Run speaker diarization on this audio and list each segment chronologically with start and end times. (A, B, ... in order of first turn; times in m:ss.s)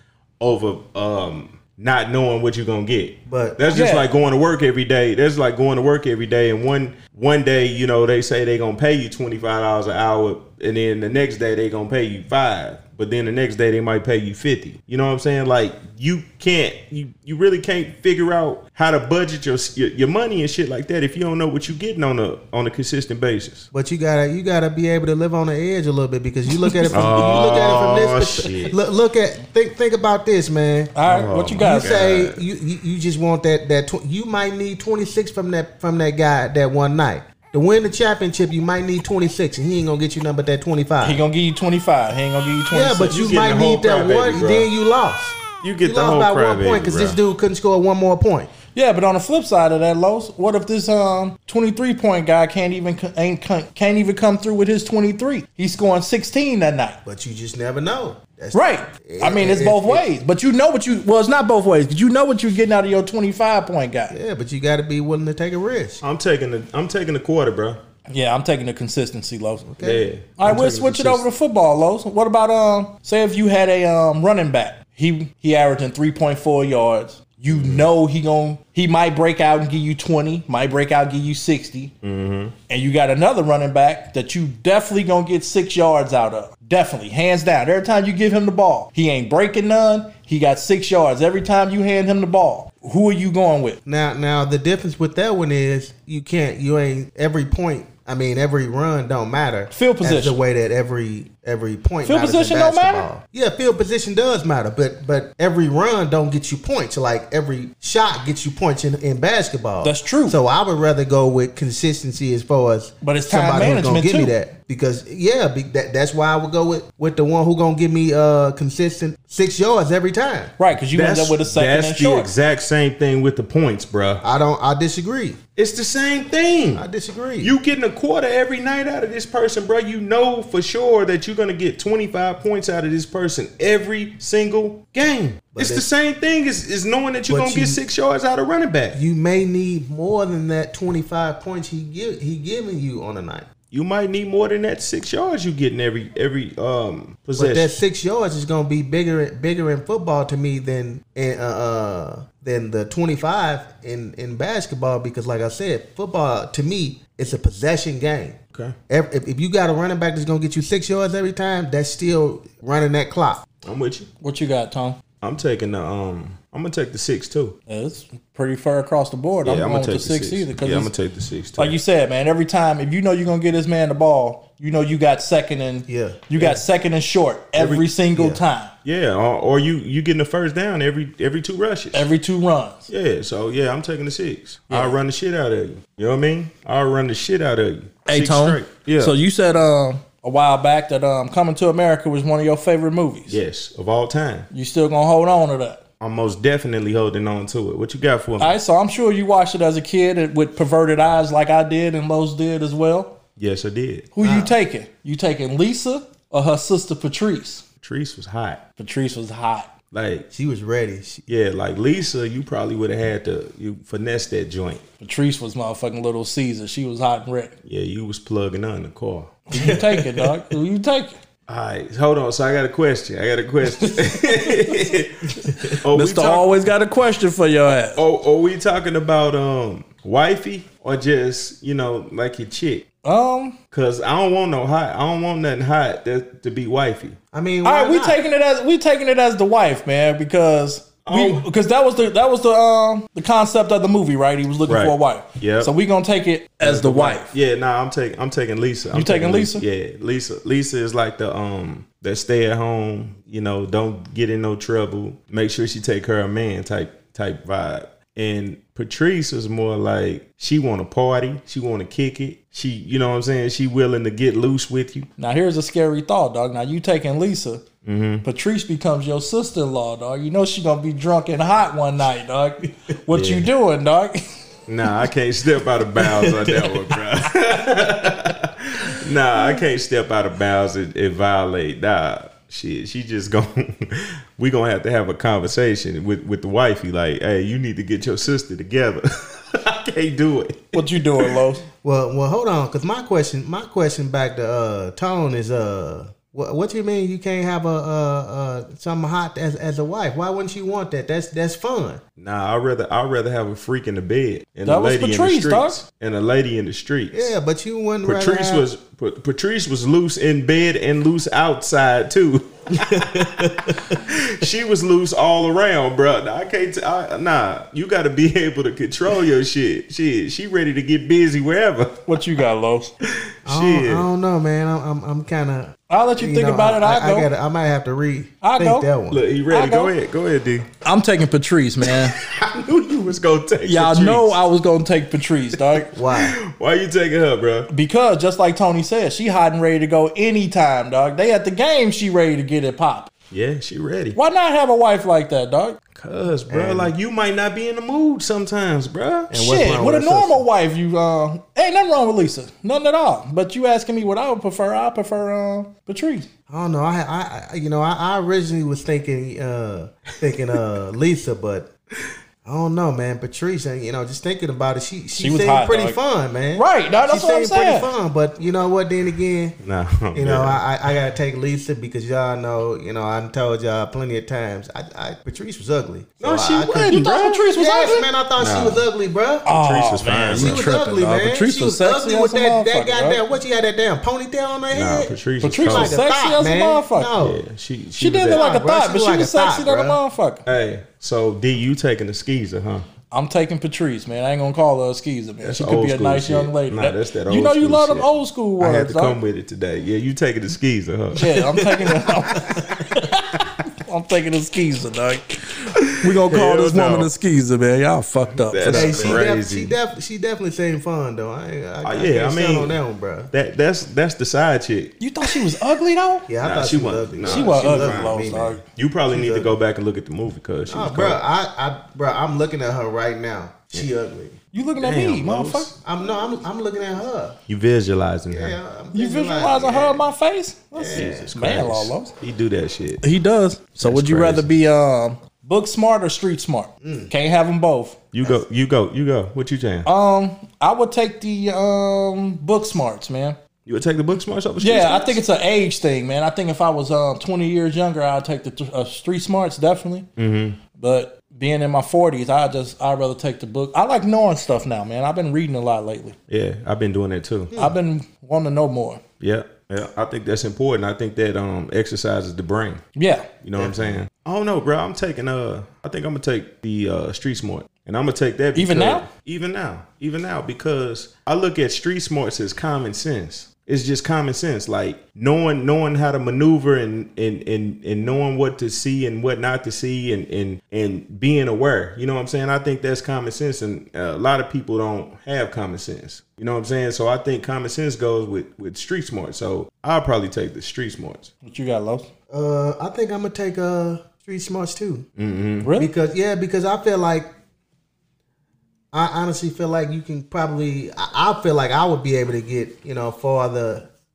0:00.4-0:23.7 A
0:03.3-0:03.6 B
0:03.7-0:04.1 C
0:23.7-0:30.9 B
0:26.9-0:28.8 A
0:31.0-0:31.9 C
0:31.1-0:32.4 A
0:31.6-0:41.2 B
0:41.0-0:43.2 C
0:42.7-0:48.5 B
0:43.1-0:44.7 A
0:45.6-0:47.2 A
0:48.8-0:57.0 C
0:57.0-1:00.1 B
0:58.5-1:04.2 C
1:04.1-1:06.0 B
1:06.0-1:07.8 A
1:08.1-1:09.7 C
1:09.7-1:10.0 B
1:09.8-1:11.2 A
1:10.4-1:21.9 C
1:17.5-1:17.9 A
1:22.0-1:22.5 A
1:22.7-1:33.8 C
1:33.9-2:00.5 B
1:39.7-1:40.4 C
1:42.0-1:43.1 C
1:49.8-1:50.4 C
1:53.0-1:54.3 C
2:00.6-2:02.3 C
2:00.9-2:04.2 A
2:04.2-2:05.4 B
2:05.6-2:06.8 A
2:06.7-2:07.5 B
2:07.4-2:19.0 A
2:15.6-2:15.9 B
2:17.3-2:17.8 B
2:18.9-2:23.5 B
2:23.7-2:27.7 A
2:27.4-2:38.4 B
2:38.9-2:43.5 B
2:43.6-2:44.1 A
2:44.2-2:45.0 C
2:45.2-2:47.6 A
2:47.7-2:50.9 C
2:49.4-2:51.8 A
2:51.6-2:58.7 C
2:55.9-2:56.4 B
2:57.6-2:57.9 A
2:58.2-2:58.4 B
2:58.8-3:02.1 A
3:01.9-3:02.9 C
3:02.9-3:09.2 A
3:04.7-3:05.0 C
3:08.1-3:13.4 C
3:13.3-3:14.5 A
3:14.5-3:15.8 C
3:16.0-3:18.6 A
3:18.4-3:23.2 C
3:23.4-3:24.1 A
3:24.2-3:27.6 C
3:24.2-3:24.6 B
3:27.8-3:28.6 A
3:28.8-3:29.7 C
3:29.9-3:30.3 A
3:30.3-3:31.2 B
3:31.3-3:34.8 A
3:35.0-3:37.5 C
3:37.7-3:39.8 A
3:39.5-3:41.2 C
3:39.5-3:39.8 B
3:41.5-3:46.7 A
3:43.8-3:44.9 C
3:45.9-3:48.0 C
3:47.9-3:52.9 A
3:53.0-3:53.6 C
3:53.7-3:57.2 A
3:57.3-3:58.2 B
3:57.6-4:07.3 C
4:01.0-4:01.5 A
4:04.7-4:05.7 A
4:06.6-4:25.1 A
4:08.9-4:09.6 C
4:25.2-4:27.6 C
4:27.8-4:28.2 A
4:28.2-4:34.2 C
4:33.1-4:33.5 A
4:34.7-4:51.4 A
4:50.7-4:51.6 C
4:51.8-5:02.0 B
5:02.2-5:07.3 A
5:04.7-5:05.8 C
5:07.1-5:08.6 B
5:08.0-5:22.2 A
5:12.7-5:13.9 B
5:22.1-5:22.9 C
5:23.0-5:24.1 A
5:23.5-5:29.2 B
5:25.9-5:27.3 C
5:28.4-5:28.9 C
5:29.1-5:30.7 A
5:29.5-5:29.9 C
5:30.8-5:32.2 C
5:31.9-5:34.4 A
5:33.6-5:35.9 C
5:35.9-5:36.4 B
5:36.0-5:37.7 A
5:37.7-5:43.1 C
5:43.3-5:44.2 A
5:44.2-5:45.8 C
5:46.0-5:49.3 A
5:46.5-5:46.9 B
5:49.3-5:50.4 B
5:49.3-5:56.3 C
5:56.5-6:01.7 B
6:02.4-6:09.6 B
6:05.2-6:06.0 C
6:06.6-6:07.9 C
6:09.6-6:10.6 A
6:10.1-6:19.5 B
6:16.2-6:17.4 A
6:16.7-6:18.1 C
6:18.4-6:18.8 A
6:19.5-6:23.2 C
6:19.5-6:20.6 A
6:20.3-6:27.4 B
6:24.7-6:26.0 A
6:25.4-6:27.1 C
6:27.2-6:28.4 A
6:28.0-6:30.4 C
6:28.3-6:30.0 B
6:30.4-6:32.8 A
6:33.1-6:39.2 C
6:35.4-6:41.4 A
6:41.1-6:49.2 C
6:41.6-6:42.8 B
6:45.8-6:47.1 A
6:48.4-6:49.8 A
6:48.7-6:53.3 B
6:51.8-6:52.8 A
6:53.3-6:55.0 A
6:55.0-6:56.3 C
6:56.3-6:59.6 B
6:56.4-7:01.2 A
6:57.3-6:58.6 C
7:00.7-7:04.4 B
7:04.5-7:05.7 C
7:04.8-7:05.8 A
7:05.8-7:07.4 B
7:07.5-7:08.6 A
7:08.3-7:10.0 B
7:08.9-7:12.1 C
7:10.7-7:11.3 B
7:10.9-7:13.0 A
7:13.0-7:18.0 C
7:13.8-7:14.5 A
7:16.8-7:17.1 B
7:18.1-7:19.9 A
7:19.8-7:23.4 C
7:23.7-7:25.2 A
7:24.6-7:30.1 C
7:30.2-7:30.6 A
7:30.8-7:36.2 C
7:36.3-7:37.6 A
7:37.6-7:39.0 C
7:39.2-7:42.8 A
7:43.0-7:43.3 C
7:43.4-8:11.3 A
7:43.6-7:44.0 B
7:48.6-7:49.1 C
8:11.4-8:12.1 C
8:12.3-8:15.0 B
8:15.2-8:15.7 A
8:15.6-8:15.9 C
8:15.8-8:17.3 B
8:18.9-8:23.9 B